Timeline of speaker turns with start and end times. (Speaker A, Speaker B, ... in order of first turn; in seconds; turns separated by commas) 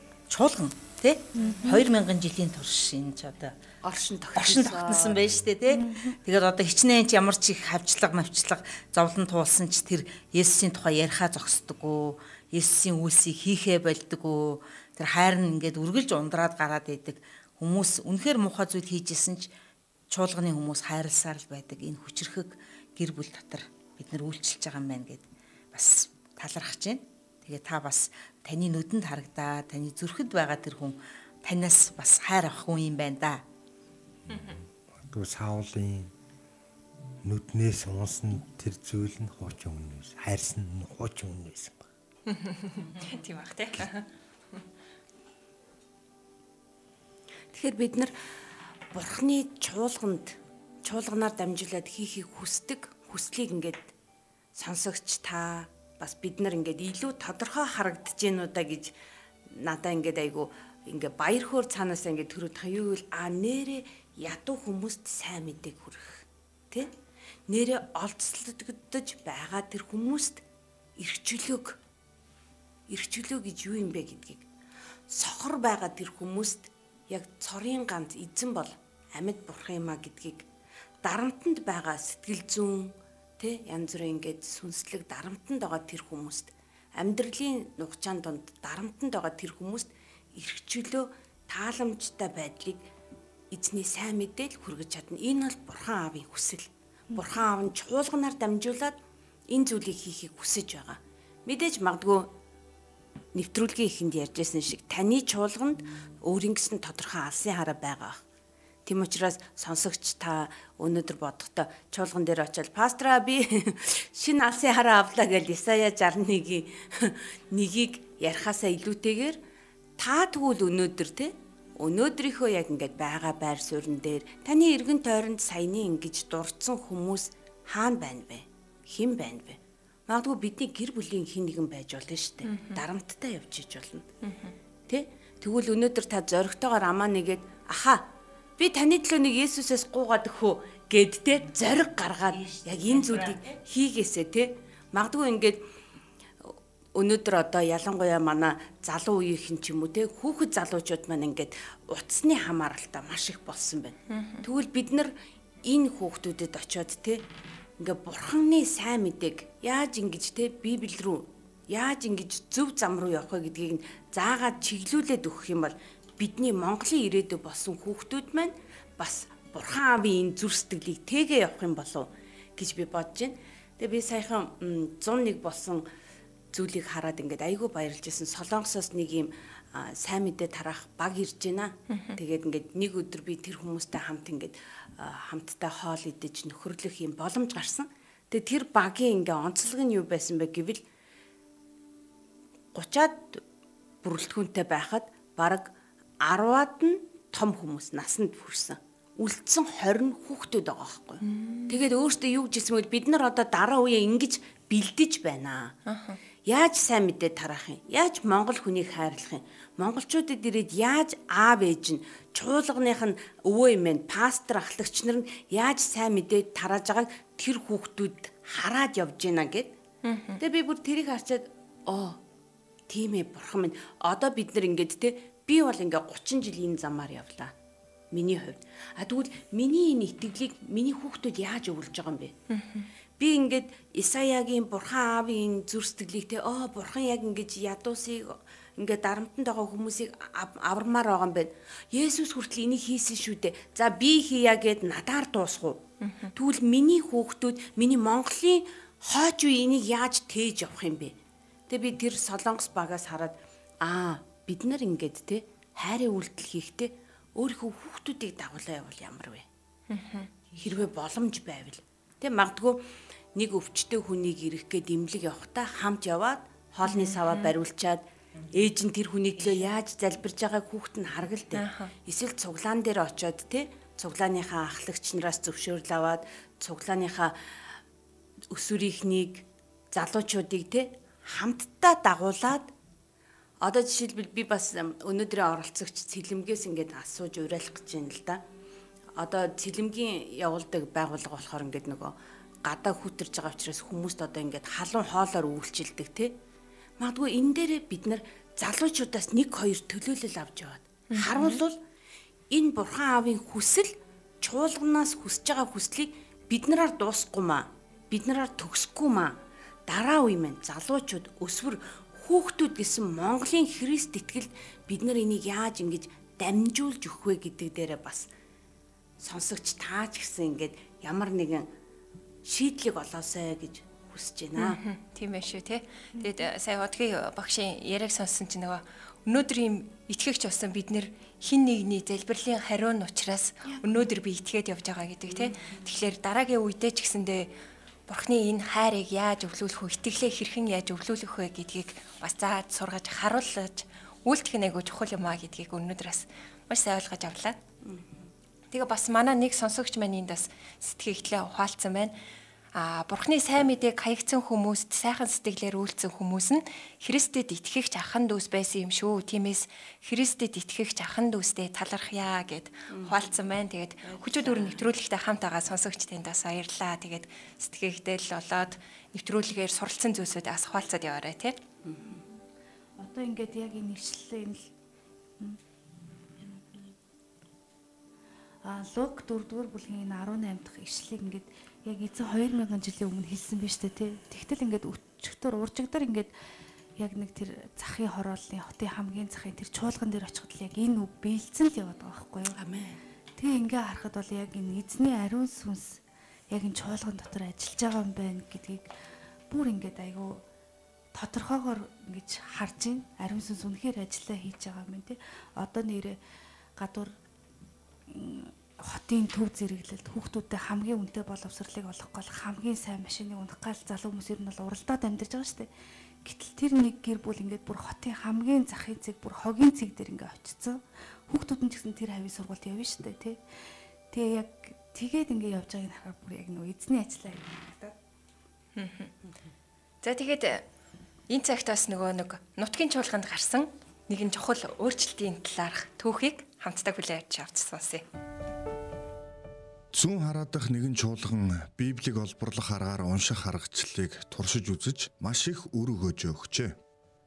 Speaker A: 0.3-3.5, Speaker B: 1.4-1.7, Speaker C: 1.4-1.8, Speaker C: 3.8-5.3, Speaker A: 4.3-19.5, Speaker B: 5.7-6.2, Speaker A: 20.1-33.4, Speaker D: 34.3-36.1, Speaker E: 34.3-34.6, Speaker D: 37.2-41.9, Speaker E: 42.3-44.6, Speaker C: 47.5-48.1, Speaker C: 48.9-53.9, Speaker C: 54.5-58.9, Speaker C: 59.5-66.9, Speaker C: 67.5-70.4, Speaker C: 71.0-71.8, Speaker C: 72.9-74.4, Speaker C: 75.1-80.4, Speaker C: 81.0-92.8, Speaker C: 93.5-99.0, Speaker C: 99.5-102.3, Speaker C: 103.3-108.2, Speaker C: 108.8-119.4, Speaker C: 120.0-134.1, Speaker E: 132.5-132.8, Speaker E: 134.2-134.5, Speaker C: 134.9-138.0, Speaker C: 138.6-145.6, Speaker C: 146.9-155.1, Speaker E: 154.1-154.4, Speaker C: 155.6-157.2, Speaker C: 157.8-175.8, Speaker C: 176.5-190.8, Speaker E: 181.9-182.2, Speaker C: 192.7-193.4, Speaker C: 194.0-195.7, Speaker C: 196.2-205.7, Speaker E: 201.2-201.7, Speaker E: 205.9-206.2, Speaker C: 206.5-219.7, Speaker E: 220.0-220.4, Speaker C: 220.4-222.2, Speaker C: 222.9-227.5, Speaker C: 228.1-232.3, Speaker E: 232.5-232.9, Speaker C: 233.2-245.8, Speaker E: 246.0-246.3, Speaker C: 246.3-251.1, Speaker C: 251.7-259.4, Speaker E: 259.9-260.3, Speaker C: 260.6-277.3, Speaker E: 266.9-267.5, Speaker E: 271.6-271.9, Speaker C: 278.5-282.7, Speaker C: 283.6-288.4, Speaker C: 289.2-296.3, Speaker C: 297.0-301.8, Speaker E: 301.1-301.6, Speaker C: 302.5-309.4, Speaker C: 309.9-318.3, Speaker C: 319.2-321.7, Speaker C: 322.4-324.8, Speaker E: 324.6-337.5, Speaker C: 335.3-335.8, Speaker E: 338.1-347.6, Speaker C: 347.8-348.3, Speaker E: 348.7-352.1, Speaker E: 352.7-371.6, Speaker C: 364.0-364.8, Speaker C: 371.8-372.2, Speaker B: 373.0-374.7, Speaker B: 376.4-376.9, Speaker B: 378.6-386.3, Speaker B: 387.0-392.5, Speaker C: 392.6-393.0, Speaker B: 393.4-396.0, Speaker B: 396.5-398.9, Speaker B: 399.5-400.4, Speaker B: 401.1-406.2, Speaker B: 406.8-407.1, Speaker B: 408.1-415.7, Speaker B: 416.2-423.4, Speaker B: 424.1-427.9, Speaker E: 428.8-429.1, Speaker E: 430.0-430.6, Speaker E: 431.3-438.0, Speaker F: 439.9-446.7